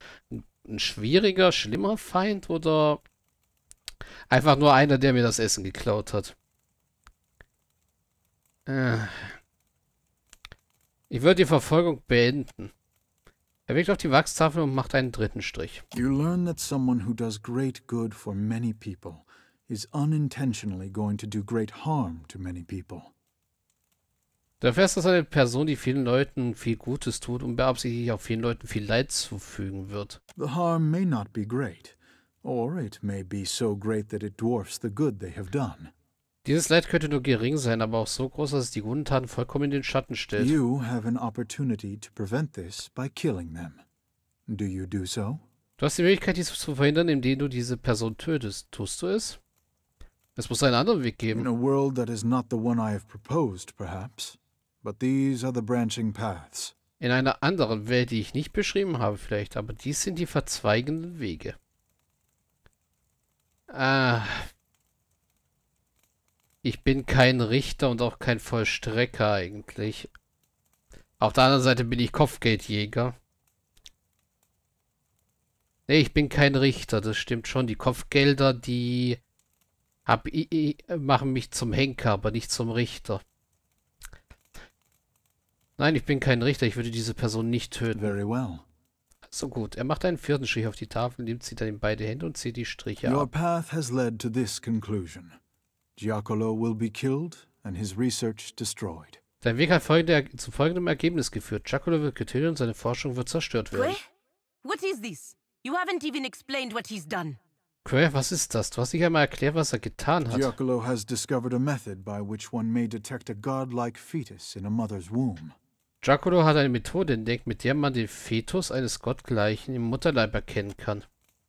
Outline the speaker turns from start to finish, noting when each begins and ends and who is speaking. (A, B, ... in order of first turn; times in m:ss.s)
0:00.3-0:03.0 A
0:04.3-0:06.3 A
0:08.7-0:09.4 A
0:11.1-0:12.7 A
0:13.7-0:15.8 A
0:15.9-0:23.1 B
0:24.6-0:30.2 A
0:30.4-0:35.9 B
0:36.4-0:40.6 A
0:40.4-0:43.8 B
0:44.5-0:45.4 B
0:45.8-0:49.4 A
0:50.4-0:51.5 A
0:51.3-0:56.7 B
0:57.0-1:01.6 A
1:03.7-1:04.5 A
1:06.6-1:10.1 A
1:11.2-1:13.1 A
1:15.9-1:19.2 A
1:20.0-1:23.2 A
1:25.8-1:28.1 A
1:27.9-1:28.6 B
1:29.3-1:33.3 A
1:33.0-1:35.4 B
1:36.0-1:39.2 B
1:39.4-1:44.0 A
1:43.7-1:44.0 C
1:44.6-1:47.4 C
1:47.8-1:50.5 A
1:50.3-1:55.5 B
1:56.0-2:01.0 A